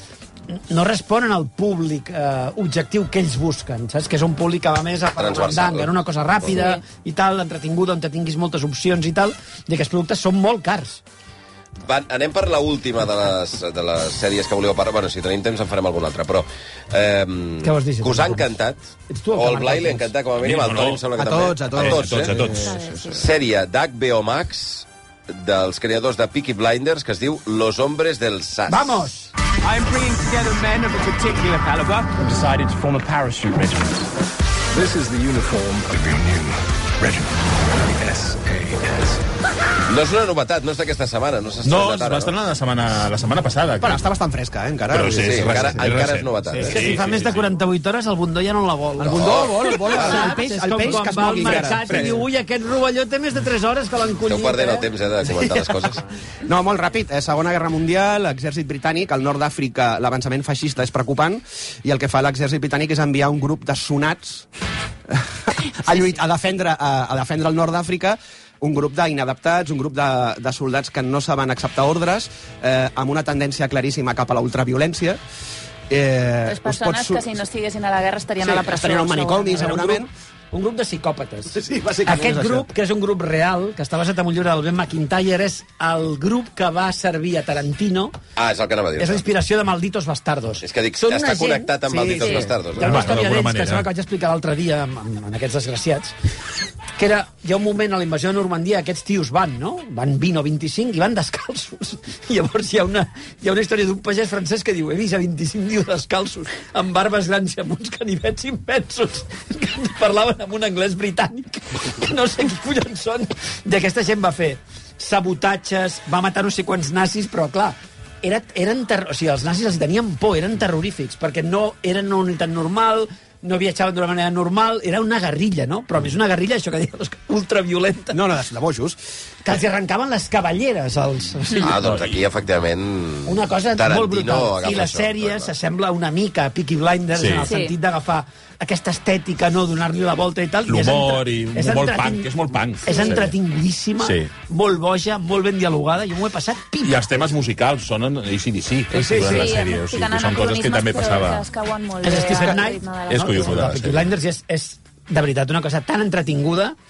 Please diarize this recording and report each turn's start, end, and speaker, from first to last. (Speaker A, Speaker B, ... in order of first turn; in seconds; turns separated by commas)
Speaker A: 0.5-11.0, Speaker B: 5.2-6.5, Speaker C: 6.5-6.8, Speaker B: 11.8-18.8, Speaker A: 17.6-18.5, Speaker A: 19.1-20.1, Speaker B: 19.3-22.4, Speaker D: 20.4-21.1, Speaker E: 21.1-23.0, Speaker D: 21.6-22.9, Speaker C: 22.5-23.2, Speaker B: 23.1-29.1, Speaker A: 28.7-29.3, Speaker E: 29.6-32.1, Speaker F: 32.4-33.8, Speaker F: 35.2-36.3, Speaker F: 38.0-38.9, Speaker B: 39.9-42.4, Speaker D: 41.6-44.1, Speaker E: 43.8-45.9, Speaker D: 44.9-47.6, Speaker B: 45.1-47.0, Speaker A: 46.5-54.9, Speaker E: 49.0-52.2, Speaker B: 49.0-50.5, Speaker D: 51.4-52.1, Speaker B: 54.2-56.0, Speaker E: 56.5-64.5, Speaker E: 65.1-75.2, Speaker E: 75.9-77.4, Speaker C: 76.5-79.8, Speaker E: 78.4-80.1, Speaker A: 79.5-88.2, Speaker E: 81.5-82.7, Speaker B: 88.4-89.3, Speaker A: 89.0-96.1, Speaker B: 90.6-93.1, Speaker E: 91.9-92.4, Speaker D: 92.8-93.9, Speaker A: 97.0-128.2, Speaker E: 128.1-129.0, Speaker A: 129.4-131.8, Speaker B: 131.6-135.5, Speaker D: 131.8-132.3, Speaker A: 133.3-142.3, Speaker D: 137.1-137.5, Speaker C: 137.4-137.8, Speaker D: 140.7-143.4, Speaker A: 142.8-147.3, Speaker C: 142.9-143.2, Speaker D: 144.0-144.3, Speaker D: 146.8-151.5, Speaker A: 148.9-149.6, Speaker C: 149.2-153.6, Speaker A: 152.0-156.8, Speaker D: 153.1-154.1